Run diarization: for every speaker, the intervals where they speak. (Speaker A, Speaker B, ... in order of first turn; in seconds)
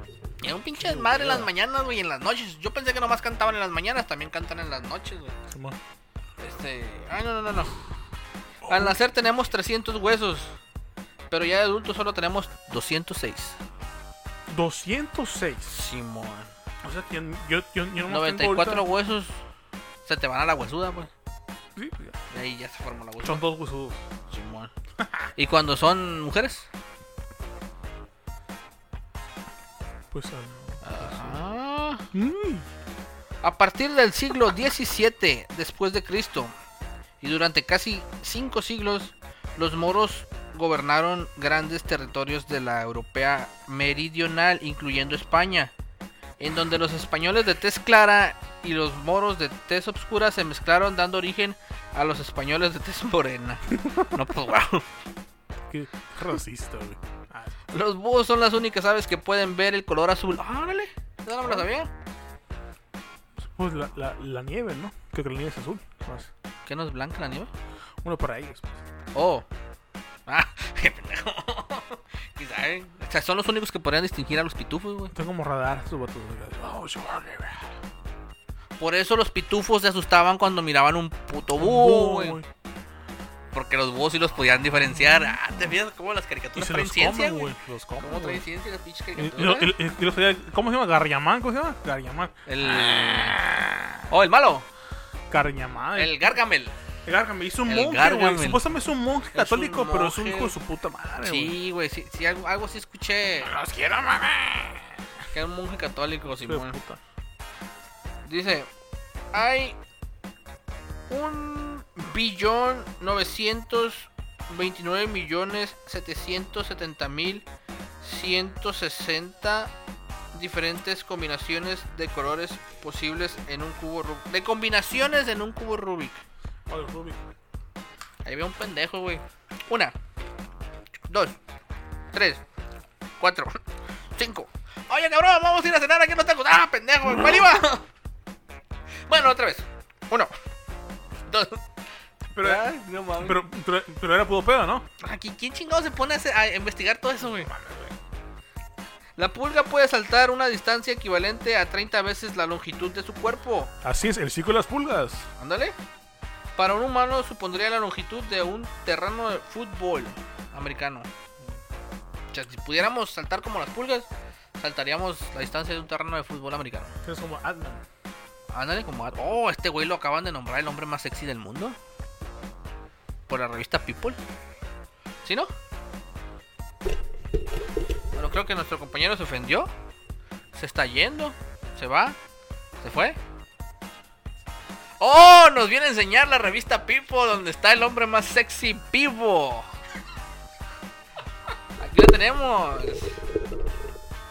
Speaker A: 0.4-5.4, 6.4-7.8, 8.7-10.6, 11.3-13.6, 15.7-16.5, 18.1-19.4, 20.0-21.1, 22.3-23.4, 24.3-24.7, 25.4-26.7, 30.8-32.0, 33.4-36.5, 37.2-45.7, 46.4-54.9, 57.7-61.9, 66.7-67.5, 69.1-69.5, 70.3-75.1, 78.8-82.4, 83.5-89.7, 92.5-93.4, 94.1-94.7, 95.9-96.8, 97.6-98.7, 99.3-100.5, 101.2-103.5, 105.3-106.8, 108.2-108.7, 109.3-109.8, 111.1-117.5, 118.0-119.7, 120.3-126.2, 128.2-129.9, 131.1-131.4, 132.1-132.4, 133.2-133.6, 134.2-137.8, 139.1-140.3, 141.3-141.6, 142.4-143.4, 145.0-147.5, 149.2-153.7, 155.4-155.8, 156.6-161.1, 162.3-164.1, 164.6-167.0, 168.5-171.8, 173.3-174.2, 175.2-175.5, 178.1-179.7, 180.5-182.2, 182.8-183.2, 185.0-189.7, 191.8-193.2
Speaker B: 0.8-1.5, 5.5-5.8, 8.6-9.0, 14.5-15.7, 16.8-18.8, 21.8-22.2, 23.2-24.0, 30.1-31.4, 32.1-32.6, 55.7-57.5, 63.4-66.3, 68.0-68.8, 75.1-77.8, 81.5-82.5, 84.4-85.8, 86.5-88.4, 89.1-94.1, 95.3-96.2, 97.0-101.5, 103.4-105.0, 106.3-107.0, 126.7-127.2, 137.1-137.4, 142.3-144.8, 147.2-147.9, 153.8-155.3, 167.0-167.8